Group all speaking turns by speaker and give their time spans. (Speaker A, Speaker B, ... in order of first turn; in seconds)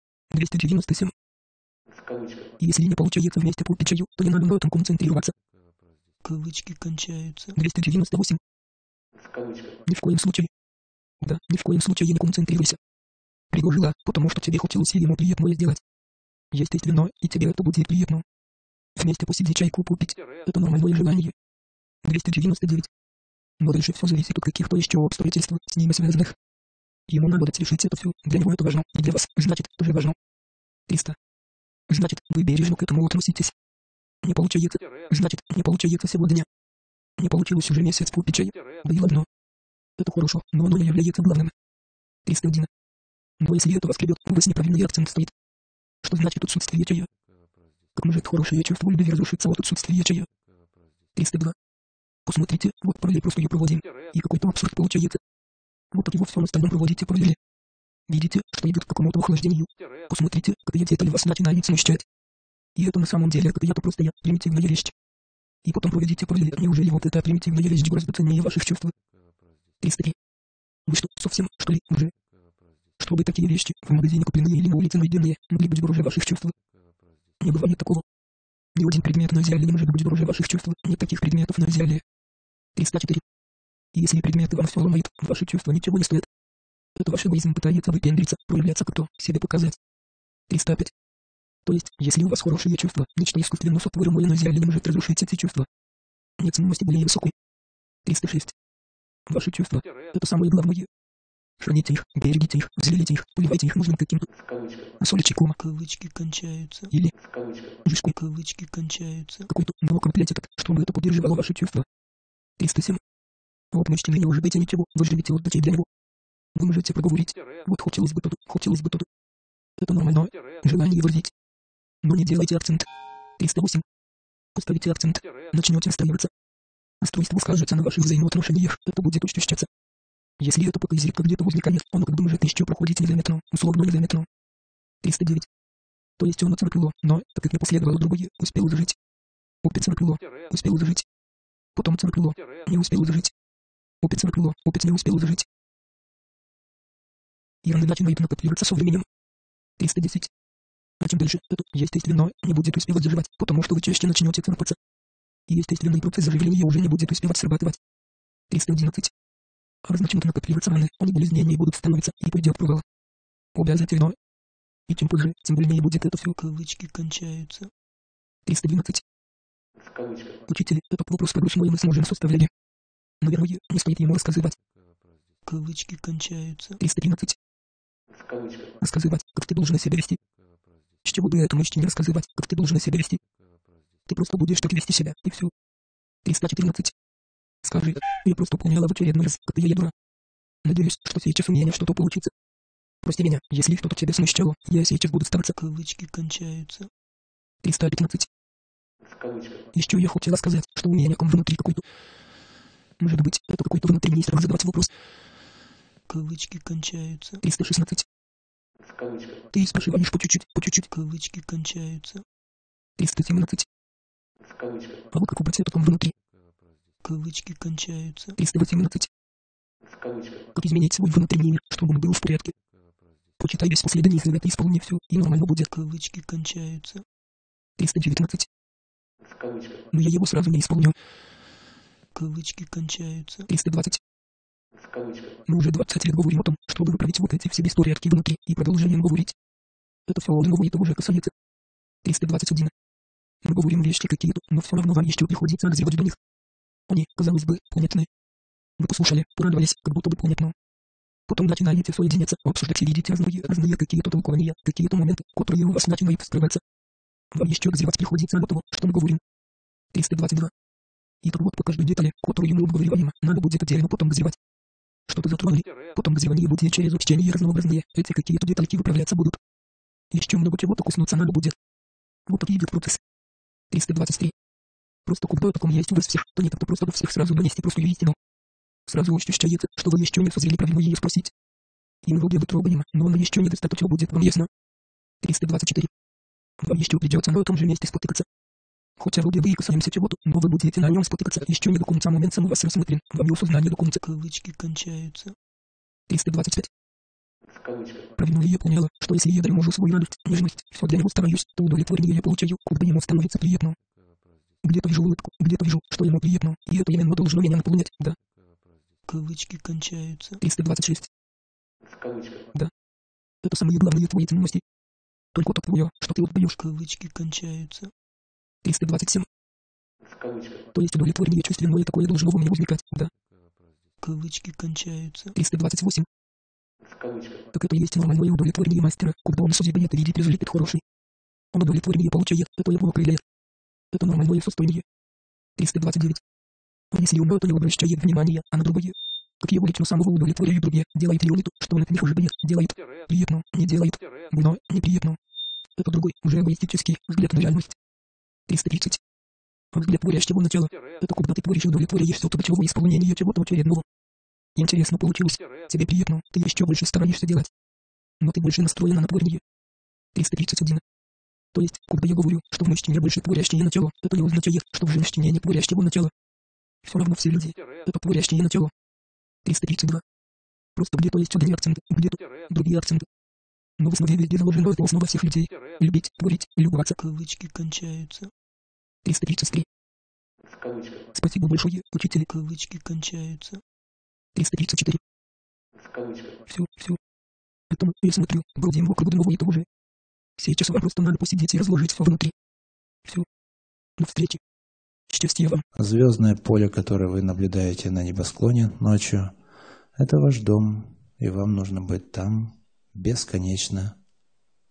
Speaker A: 0.3-1.1, 2.6-5.3, 7.5-8.4, 9.9-10.5, 11.2-12.8, 13.5-15.8, 16.5-18.2, 19.0-21.3, 22.1-22.9, 23.6-26.4, 27.1-30.2, 30.9-31.2, 31.9-33.5, 34.2-36.5, 37.2-39.3, 40.0-41.5, 42.3-42.7, 43.4-45.3, 46.0-47.1, 48.0-50.3, 51.1-51.5, 52.3-55.2, 55.9-57.4, 58.1-62.0, 62.8-64.9, 65.7-68.9, 69.8-70.2, 70.9-72.1, 73.0-76.5, 77.4-78.0, 78.8-82.0, 82.8-83.2, 84.0-86.3, 87.0-89.8, 90.5-90.9, 91.7-95.7, 96.4-97.3, 98.0-98.5, 99.3-100.9, 101.6-104.3, 105.0-105.6, 107.8-108.2, 109.5-111.9, 112.6-113.0, 113.7-115.9, 116.6-119.1, 119.8-121.3, 122.0-122.9, 123.4-123.8, 124.5-126.3, 127.0-129.7, 130.4-134.3, 135.0-135.5, 136.2-139.0, 139.6-141.1, 141.8-143.3, 144.0-145.5, 147.6-149.1, 149.8-150.3, 151.0-154.8, 155.5-157.8, 158.5-159.1, 159.8-162.8, 163.6-164.2, 164.9-166.4, 168.5-169.0, 170.5-172.5, 173.2-174.6, 176.8-177.4, 178.8-180.2, 181.0-183.2, 184.1-185.5, 186.2-186.9, 187.6-189.9, 190.7-192.3, 193.0-195.6, 197.6-198.3, 199.8-201.8, 203.0-204.9, 207.4-208.1, 209.5-210.9, 213.0-213.7, 215.1-216.1, 218.4-219.1, 220.6-222.5, 223.4-225.7, 227.8-228.5, 229.9-230.9, 233.5-234.0, 235.5-239.3, 240.1-241.3, 242.0-242.7, 243.4-246.2, 246.9-248.1, 248.8-250.5, 251.3-256.6, 257.3-259.2, 259.9-260.5, 261.2-264.4, 265.1-269.4, 270.1-271.6, 272.3-273.0, 273.7-274.3, 275.1-278.2, 278.9-281.3, 282.1-284.5, 285.2-285.9, 286.6-288.3, 289.0-294.0, 296.1-296.7, 298.2-303.8, 304.6-308.2, 310.4-311.1, 313.4-314.6, 315.3-316.6, 318.6-319.3, 320.7-323.1, 325.3-326.1, 327.5-330.8, 331.5-333.2, 333.9-334.8, 335.6-336.2, 336.9-345.2, 345.8-347.8, 348.5-349.0, 349.7-353.9, 354.6-357.5, 358.2-359.4, 360.1-360.8, 361.5-366.1, 366.9-368.7, 369.4-370.0, 370.8-373.1, 373.8-377.0, 379.0-379.7, 381.1-382.3, 384.4-385.0, 386.5-387.0, 387.7-389.7, 390.4-392.3, 394.0-394.4, 395.1-395.6
Speaker B: 6.2-7.6, 105.6-106.9, 108.2-109.5, 166.4-167.7, 175.4-176.8, 195.6-196.9, 206.1-207.4, 210.9-212.2, 217.0-218.4, 225.7-227.0, 232.2-233.5, 294.0-295.4, 309.1-310.4, 316.6-317.9, 324.0-325.3, 377.0-378.3, 382.3-383.6
Speaker C: 395.8-399.4, 400.0-404.0